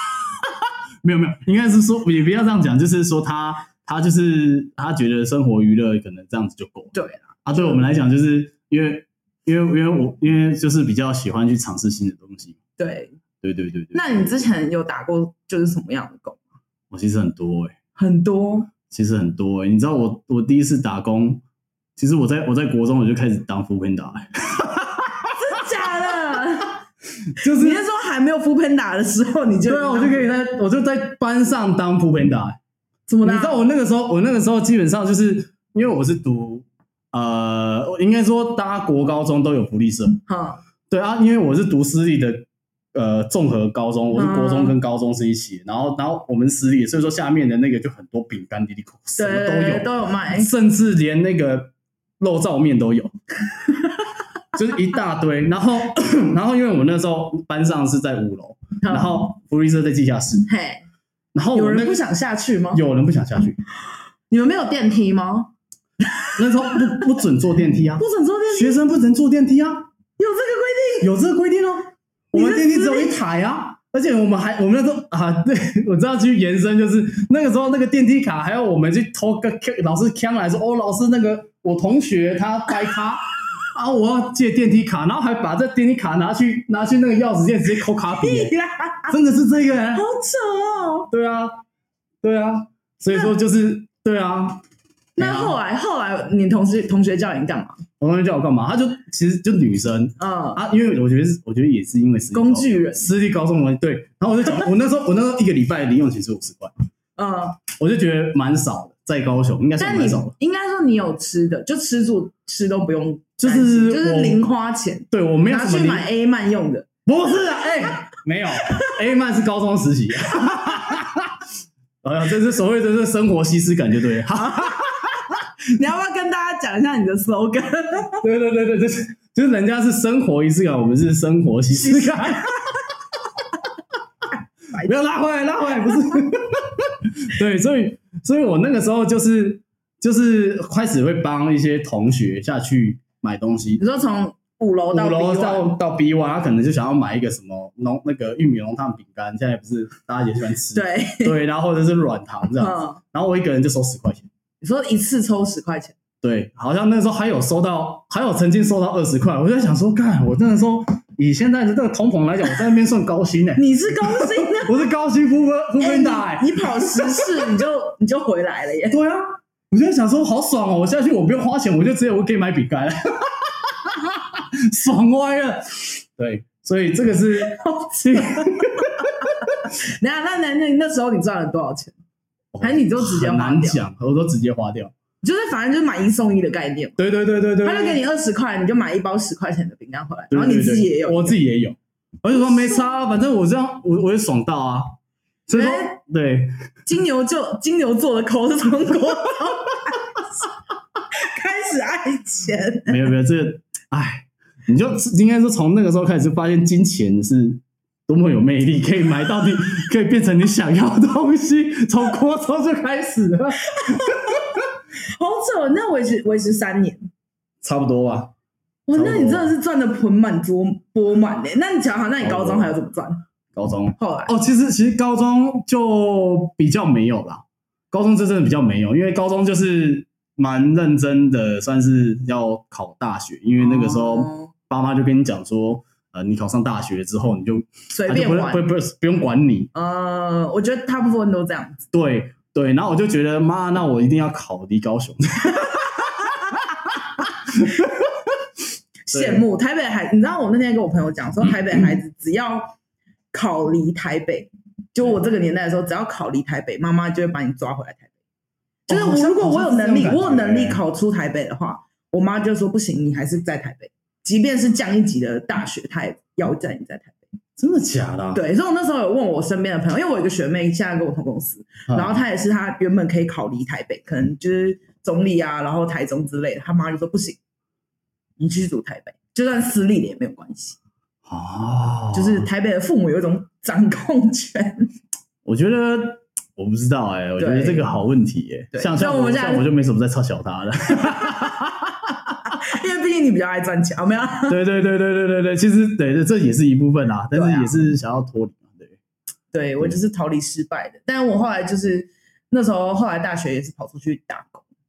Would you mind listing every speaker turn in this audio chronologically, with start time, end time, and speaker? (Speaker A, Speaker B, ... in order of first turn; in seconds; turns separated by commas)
Speaker A: 1.0-6.9, Speaker B: 6.9-7.8, Speaker A: 7.4-12.6, Speaker B: 12.8-13.1, Speaker A: 13.4-14.0, Speaker B: 13.9-16.4, Speaker A: 16.9-17.7, Speaker B: 17.9-18.7, Speaker A: 18.9-21.4, Speaker A: 22.0-25.3, Speaker B: 25.4-26.8, Speaker A: 27.4-27.8, Speaker B: 27.4-30.3, Speaker A: 29.6-32.6, Speaker B: 33.1-33.6, Speaker A: 33.2-40.2, Speaker B: 40.3-40.6, Speaker A: 40.9-53.1, Speaker B: 44.1-44.7, Speaker B: 49.2-50.5, Speaker A: 54.5-60.5, Speaker B: 58.8-59.1, Speaker B: 60.5-60.8, Speaker A: 61.3-62.0, Speaker B: 61.5-62.8, Speaker A: 62.7-63.6, Speaker B: 64.3-65.5, Speaker B: 66.2-66.9, Speaker A: 66.3-69.9, Speaker B: 68.0-68.8, Speaker B: 70.2-71.1, Speaker A: 71.0-88.5, Speaker B: 72.3-73.1, Speaker B: 88.2-89.2, Speaker A: 89.1-90.0, Speaker B: 89.9-91.1, Speaker A: 91.1-91.6, Speaker A: 92.2-94.6, Speaker A: 95.2-95.6, Speaker B: 95.2-97.8, Speaker A: 98.0-106.7, Speaker B: 100.2-100.6, Speaker B: 102.3-103.1, Speaker B: 107.2-107.6, Speaker A: 107.7-110.3, Speaker B: 109.8-116.9, Speaker A: 113.4-114.4, Speaker A: 115.1-116.0, Speaker A: 117.0-121.3, Speaker A: 122.0-125.2, Speaker B: 124.4-124.9, Speaker B: 125.7-128.2, Speaker A: 128.2-132.5, Speaker B: 131.7-132.8, Speaker A: 134.8-143.8, Speaker B: 143.8-145.7, Speaker A: 144.9-154.3, Speaker B: 150.7-151.3, Speaker B: 152.6-153.0, Speaker B: 154.6-155.9, Speaker A: 156.2-167.5, Speaker B: 163.6-164.8, Speaker B: 165.8-169.0, Speaker A: 168.9-179.3, Speaker B: 177.5-181.9, Speaker A: 182.5-184.9, Speaker B: 182.6-183.8, Speaker B: 185.2-187.0, Speaker A: 187.0-188.0, Speaker B: 187.6-191.4, Speaker A: 190.3-196.5, Speaker B: 195.5-196.0, Speaker B: 196.8-200.2, Speaker B: 201.1-203.0, Speaker A: 202.9-214.4, Speaker B: 213.8-214.2, Speaker B: 215.2-217.1, Speaker A: 217.6-218.3, Speaker B: 218.9-223.2, Speaker A: 218.9-219.5, Speaker A: 222.2-222.7, Speaker A: 223.5-239.7, Speaker B: 224.0-224.3, Speaker B: 233.6-234.5, Speaker B: 237.9-238.7, Speaker B: 239.7-241.8, Speaker A: 241.9-248.3, Speaker B: 249.1-252.7, Speaker A: 249.1-249.4, Speaker B: 253.3-258.1, Speaker B: 258.9-267.2, Speaker A: 258.9-260.8, Speaker A: 267.6-268.4, Speaker B: 268.3-277.4, Speaker A: 271.9-272.2, Speaker B: 278.4-280.8, Speaker A: 281.2-282.5, Speaker B: 282.1-284.9, Speaker A: 285.4-292.6, Speaker B: 287.4-287.9, Speaker B: 288.7-289.6, Speaker B: 292.6-294.6, Speaker A: 294.5-299.0, Speaker B: 297.3-297.9, Speaker B: 299.5-304.6